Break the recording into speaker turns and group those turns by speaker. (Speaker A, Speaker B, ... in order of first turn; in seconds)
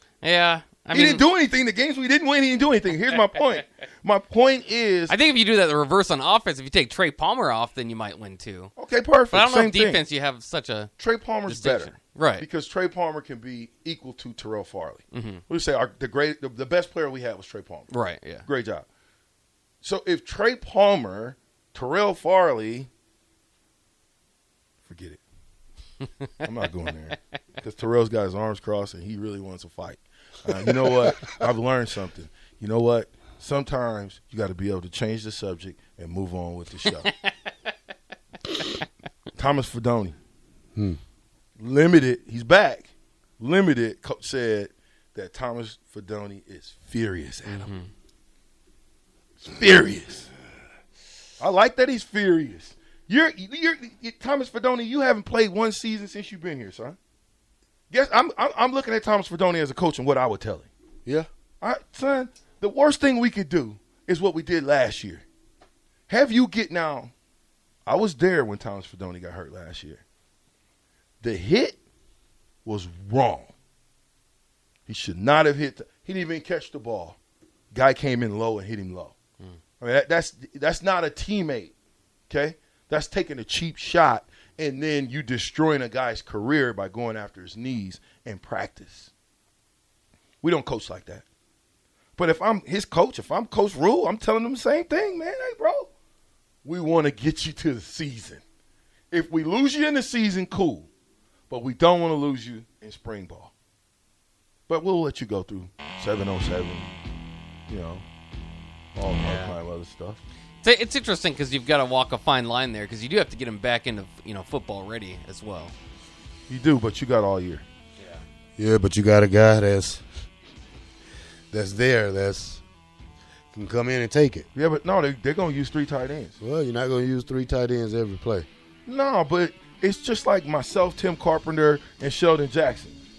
Speaker A: 0.2-1.2, 5.1-8.7, 9.3-10.9, 11.4-12.4, 15.1-15.4, 17.9-18.5, 36.9-37.3, 38.5-38.8, 47.5-47.9, 109.2-109.6, 110.6-115.7
Speaker B: 0.9-5.1, 8.8-10.0, 11.0-17.9, 18.5-18.9, 19.8-22.9, 24.8-25.2, 26.4-37.1, 39.4-40.2, 41.6-47.7, 49.4-50.3, 51.4-57.0, 57.9-60.7, 61.6-65.2, 66.1-67.1, 67.9-70.0, 71.2-71.8, 72.7-73.5, 74.9-77.2, 77.7-79.2, 79.8-81.7, 82.3-89.1, 90.4-91.3, 92.2-95.9, 96.7-98.4, 99.1-100.9, 101.5-103.5, 104.7-106.9, 107.7-108.1, 109.0-110.2, 116.5-117.6, 124.6-126.3, 128.9-133.0
Speaker C: 118.6-120.0, 121.5-122.6, 123.5-124.5, 126.4-128.5